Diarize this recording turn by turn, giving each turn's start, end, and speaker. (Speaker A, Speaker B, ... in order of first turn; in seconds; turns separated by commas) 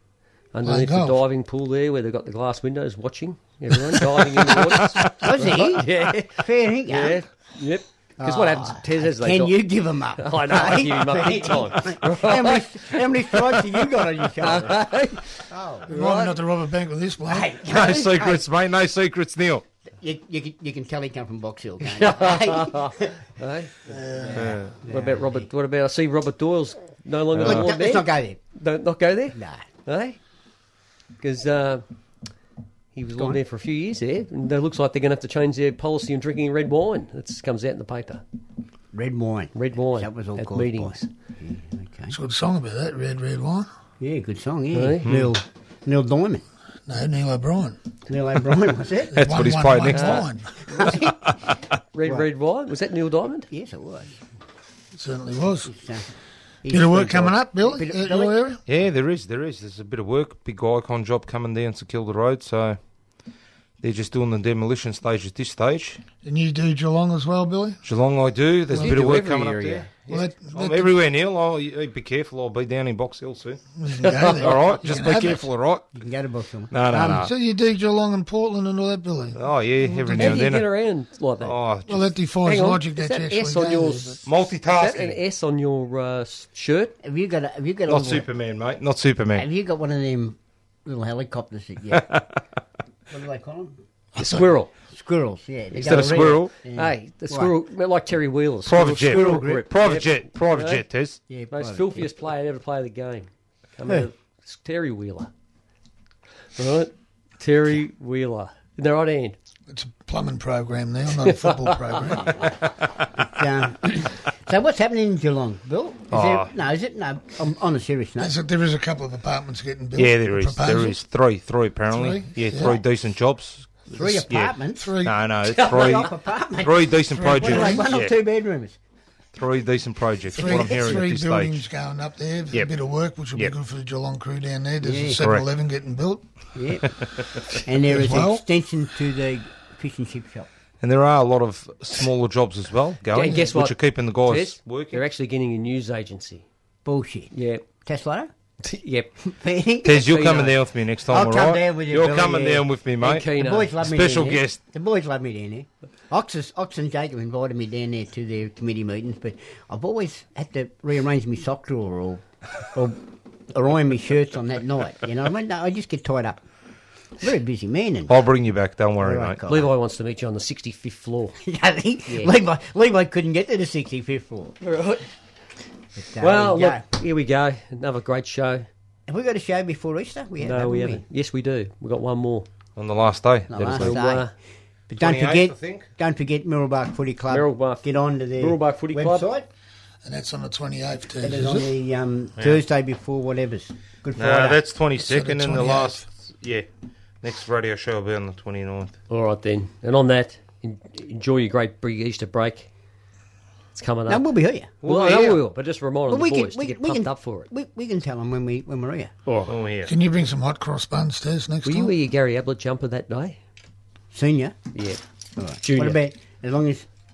Speaker A: 0.5-9.6, Speaker B: 0.6-1.2, Speaker C: 5.1-7.2, Speaker C: 8.2-14.9, Speaker A: 10.2-13.8, Speaker A: 14.3-16.4, Speaker C: 15.5-15.9, Speaker B: 15.9-17.6, Speaker C: 17.3-18.4, Speaker D: 17.6-19.6, Speaker C: 20.0-23.2, Speaker A: 21.8-23.7, Speaker B: 23.9-24.6, Speaker C: 23.9-25.5, Speaker D: 24.4-24.7, Speaker A: 24.7-30.2, Speaker D: 27.3-27.7, Speaker C: 27.4-28.4, Speaker C: 29.4-29.7, Speaker A: 31.2-31.9, Speaker A: 33.0-38.2, Speaker C: 38.9-42.2, Speaker A: 39.5-41.1, Speaker B: 42.1-43.7, Speaker C: 44.0-46.5, Speaker A: 44.7-45.1, Speaker D: 45.0-45.3, Speaker B: 46.9-47.8, Speaker C: 48.1-49.2, Speaker B: 49.1-50.9, Speaker D: 49.1-50.3, Speaker A: 49.9-50.3, Speaker C: 50.6-51.4, Speaker A: 51.9-53.5, Speaker C: 53.5-54.2, Speaker B: 55.0-55.7, Speaker C: 55.6-56.1, Speaker C: 56.6-58.4, Speaker B: 56.7-58.6, Speaker D: 58.7-62.8, Speaker D: 63.8-66.0, Speaker B: 66.2-67.8, Speaker D: 67.8-75.9, Speaker A: 68.7-69.9, Speaker B: 68.8-69.1, Speaker B: 70.1-71.0, Speaker B: 73.8-75.5, Speaker C: 75.0-75.4, Speaker C: 76.0-76.7, Speaker D: 76.7-77.3, Speaker B: 76.9-80.5, Speaker D: 79.4-80.7, Speaker A: 80.2-81.5, Speaker D: 81.4-82.1, Speaker B: 81.9-84.2, Speaker A: 82.5-87.0, Speaker D: 84.2-85.2, Speaker C: 87.0-88.3, Speaker D: 87.9-89.5, Speaker C: 89.4-92.2, Speaker C: 93.1-93.7, Speaker B: 94.2-94.5, Speaker A: 94.2-94.7, Speaker C: 94.9-97.5, Speaker A: 95.7-100.8, Speaker D: 95.8-96.5, Speaker D: 98.7-101.2, Speaker C: 99.0-99.7, Speaker C: 101.3-102.1, Speaker A: 101.5-105.3, Speaker A: 106.6-109.4, Speaker B: 109.7-112.5, Speaker A: 111.2-112.1, Speaker C: 113.3-118.3, Speaker D: 116.1-116.5, Speaker B: 118.2-121.0, Speaker D: 120.0-128.1, Speaker B: 121.9-122.8, Speaker C: 123.9-124.9, Speaker B: 124.8-125.2, Speaker C: 125.5-128.8, Speaker A: 125.5-126.1, Speaker B: 127.1-127.9, Speaker D: 129.3-131.6, Speaker C: 130.3-131.0, Speaker B: 130.3-136.2, Speaker C: 134.8-135.2, Speaker C: 136.6-140.5, Speaker B: 137.8-138.4, Speaker D: 140.8-145.0, Speaker A: 143.1-146.4, Speaker C: 146.8-147.3, Speaker A: 147.3-147.6, Speaker C: 147.8-148.3, Speaker A: 148.6-149.1, Speaker C: 149.3-150.3, Speaker D: 149.8-154.6, Speaker A: 149.9-150.6, Speaker C: 151.1-152.6, Speaker A: 153.0-153.8, Speaker C: 153.2-163.0, Speaker C: 163.5-166.4, Speaker C: 167.2-168.2, Speaker D: 168.1-169.4, Speaker C: 169.0-169.7, Speaker A: 169.5-171.4, Speaker C: 171.4-174.6, Speaker A: 172.1-172.3, Speaker A: 174.6-175.1, Speaker C: 176.0-176.8, Speaker A: 176.2-178.7, Speaker C: 179.1-181.0, Speaker A: 180.4-182.5, Speaker D: 182.8-184.0, Speaker C: 183.5-184.3, Speaker A: 183.7-184.3, Speaker C: 184.9-189.5, Speaker D: 185.0-185.9, Speaker A: 187.3-187.8, Speaker A: 188.4-189.3, Speaker B: 190.0-191.7, Speaker C: 191.2-194.6, Speaker D: 194.2-196.7, Speaker B: 195.0-196.0, Speaker D: 197.2-198.9, Speaker A: 199.1-202.7, Speaker A: 203.7-204.3, Speaker C: 204.1-204.7, Speaker D: 204.8-205.4, Speaker A: 204.8-207.5, Speaker C: 206.1-209.1, Speaker A: 209.3-209.5, Speaker D: 209.5-209.9, Speaker B: 209.8-211.9, Speaker A: 211.7-213.4, Speaker C: 214.1-214.6, Speaker A: 214.7-215.0, Speaker C: 215.4-216.9, Speaker A: 215.6-216.0